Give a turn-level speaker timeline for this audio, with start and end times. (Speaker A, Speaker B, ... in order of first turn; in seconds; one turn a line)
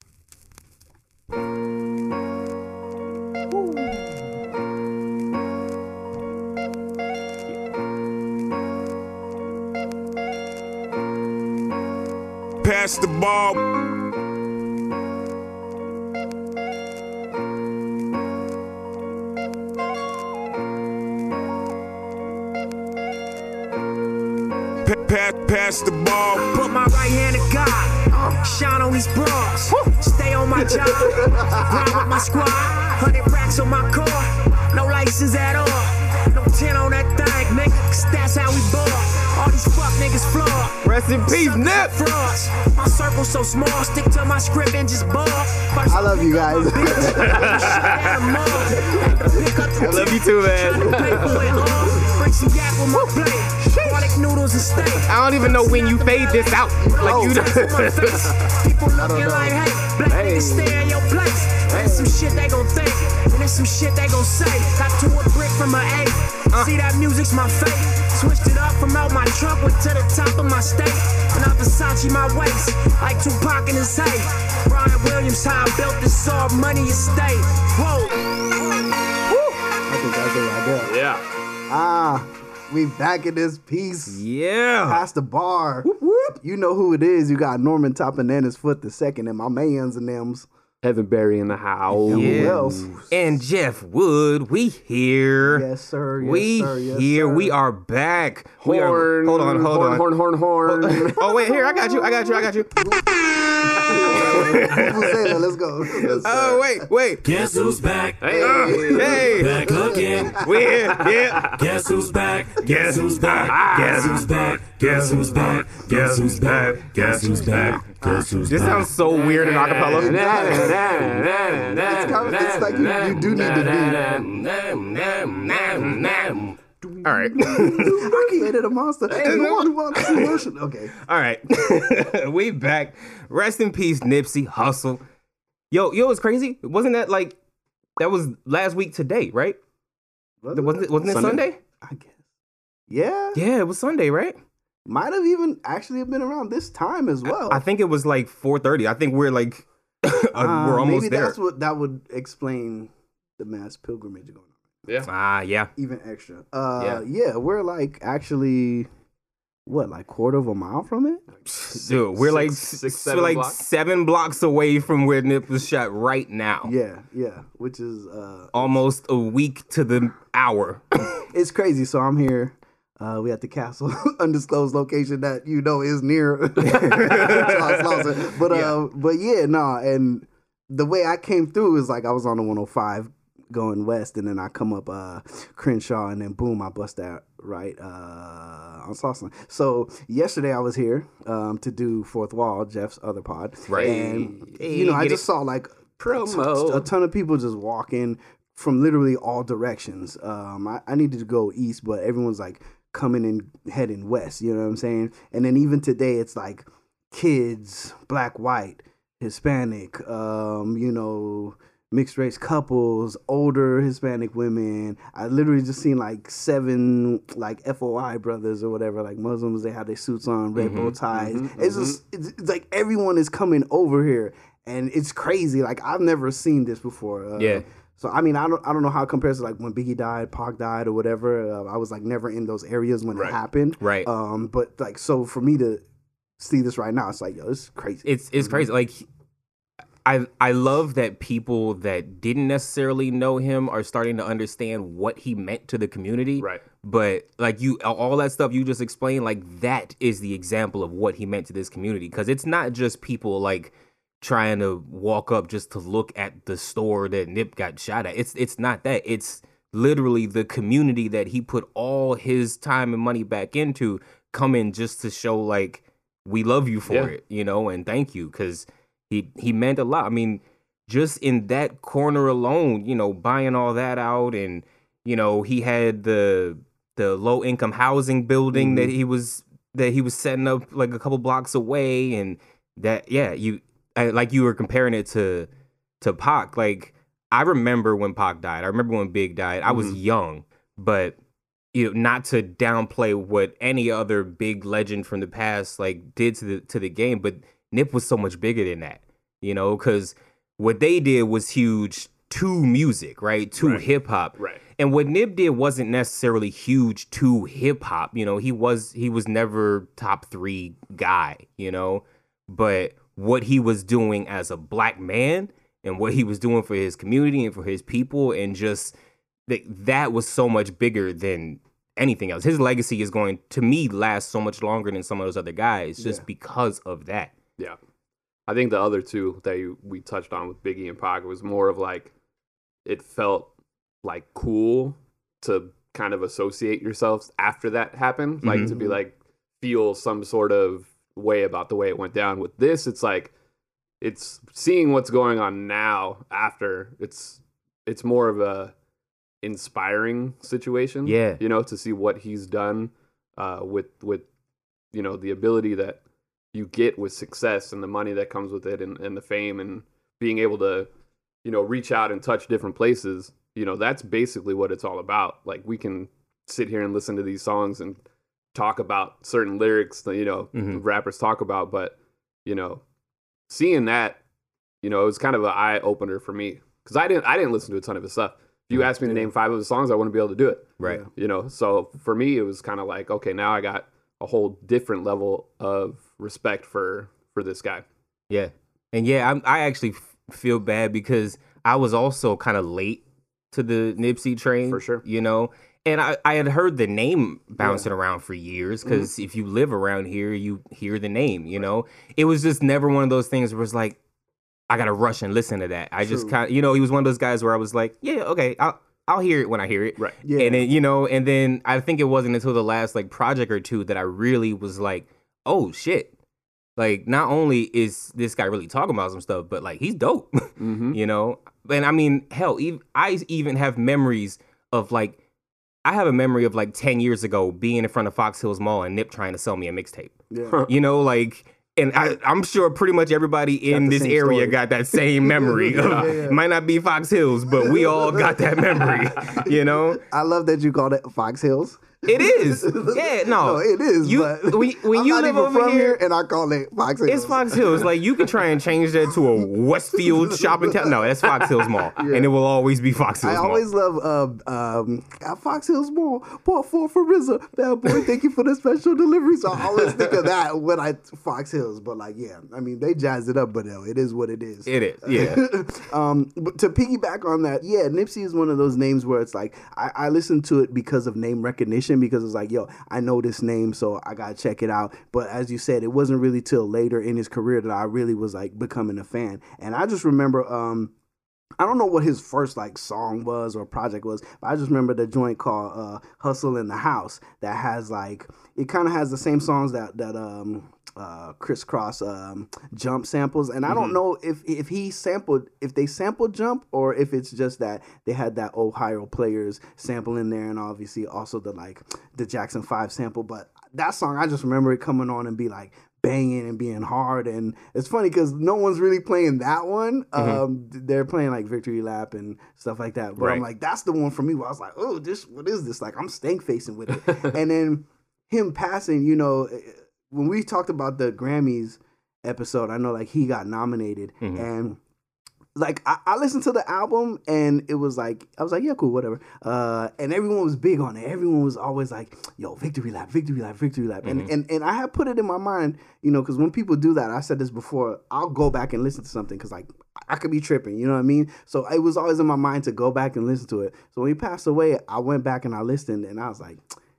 Speaker A: 3.5-4.0
Speaker B: 12.6-13.6
Speaker B: 24.8-26.5
Speaker C: 26.4-78.3
Speaker D: 30.9-32.0
Speaker A: 40.8-41.9
Speaker D: 45.8-47.5
Speaker A: 47.2-47.4
Speaker D: 49.8-51.6
Speaker A: 49.8-50.9
Speaker E: 51.0-51.3
Speaker D: 53.6-54.2
Speaker A: 55.0-58.2
Speaker D: 56.9-57.4
Speaker D: 59.0-59.4
Speaker A: 59.0-59.5
Speaker E: 60.1-60.8
Speaker E: 61.7-62.0
Speaker A: 79.3-79.6
Speaker D: 79.9-80.9
Speaker E: 80.8-81.2
Speaker D: 81.7-84.2
Speaker A: 84.1-85.0
Speaker D: 84.8-90.5
Speaker A: 85.8-86.3
Speaker E: 90.8-92.8
Speaker D: 92.0-93.1
Speaker A: 92.1-95.6
Speaker D: 95.4-97.5
Speaker A: 96.2-103.0
Speaker E: 98.6-101.2
Speaker D: 102.7-103.1
Speaker D: 103.8-106.8
Speaker A: 103.9-105.3
Speaker E: 106.0-106.4
Speaker A: 106.2-107.8
Speaker F: 107.3-108.2
Speaker E: 108.2-109.8
Speaker D: 108.4-110.4
Speaker A: 108.4-121.0
Speaker F: 109.4-110.4
Speaker E: 110.8-111.6
Speaker F: 111.5-113.1
Speaker E: 113.2-114.4
Speaker F: 114.4-116.3
Speaker F: 117.0-118.8
Speaker E: 119.1-124.4
Speaker D: 120.1-120.8
Speaker D: 121.5-124.2
Speaker A: 124.1-128.2
Speaker D: 127.3-130.9
Speaker E: 129.1-129.4
Speaker A: 129.2-130.4
Speaker A: 131.0-135.0
Speaker A: 135.7-137.3
Speaker A: 138.0-139.6
Speaker D: 140.4-142.2
Speaker A: 140.5-141.6
Speaker D: 142.9-143.4
Speaker A: 143.3-144.3
Speaker D: 144.8-147.6
Speaker A: 147.3-151.3
Speaker D: 150.3-154.5
Speaker A: 155.0-155.7
Speaker D: 155.8-158.9
Speaker A: 156.8-157.0
Speaker D: 159.7-161.2
Speaker E: 161.5-163.6
Speaker A: 161.6-166.7
Speaker D: 166.6-168.8
Speaker A: 168.5-170.8
Speaker D: 171.2-235.8
Speaker A: 176.6-178.8
Speaker A: 193.7-195.2
Speaker E: 193.8-194.5
Speaker E: 196.0-196.8
Speaker A: 220.6-220.9
Speaker E: 221.1-222.0
Speaker A: 227.4-227.6
Speaker A: 233.8-234.1
Speaker D: 236.4-238.6
Speaker A: 238.0-239.0
Speaker A: 240.0-285.5
Speaker D: 278.5-278.9
Speaker A: 286.0-291.1
Speaker E: 289.6-290.0
Speaker A: 291.7-318.9
Speaker E: 303.6-303.9
Speaker A: 319.5-327.3
Speaker D: 326.0-326.2
Speaker E: 328.5-332.1
Speaker E: 332.8-333.5
Speaker E: 334.0-343.3
Speaker A: 338.4-338.7
Speaker D: 338.6-338.9
Speaker E: 344.0-348.7
Speaker E: 349.4-354.2
Speaker A: 351.1-351.4
Speaker E: 354.9-356.0
Speaker E: 356.5-360.9
Speaker E: 361.4-368.0
Speaker E: 368.5-372.8
Speaker A: 370.5-370.8
Speaker E: 373.5-374.2
Speaker E: 374.8-387.8
Speaker D: 380.8-381.1
Speaker A: 388.3-404.0
Speaker E: 394.7-395.0
Speaker D: 397.6-397.9
Speaker A: 404.7-416.1
Speaker D: 406.0-406.4
Speaker D: 410.2-410.7
Speaker A: 416.8-425.2
Speaker E: 420.6-421.0
Speaker A: 425.8-430.1
Speaker D: 430.3-430.6
Speaker A: 430.7-440.0
Speaker D: 433.7-434.6
Speaker D: 435.2-436.4
Speaker E: 435.8-436.1
Speaker D: 437.5-447.9
Speaker A: 442.1-446.0
Speaker A: 447.1-453.6
Speaker D: 450.0-451.4
Speaker D: 452.0-452.3
Speaker D: 453.2-480.9
Speaker A: 464.6-465.5
Speaker D: 481.6-524.8
Speaker E: 493.7-493.9
Speaker A: 510.2-510.4
Speaker A: 524.2-524.5
Speaker D: 525.5-546.6
Speaker A: 534.0-534.3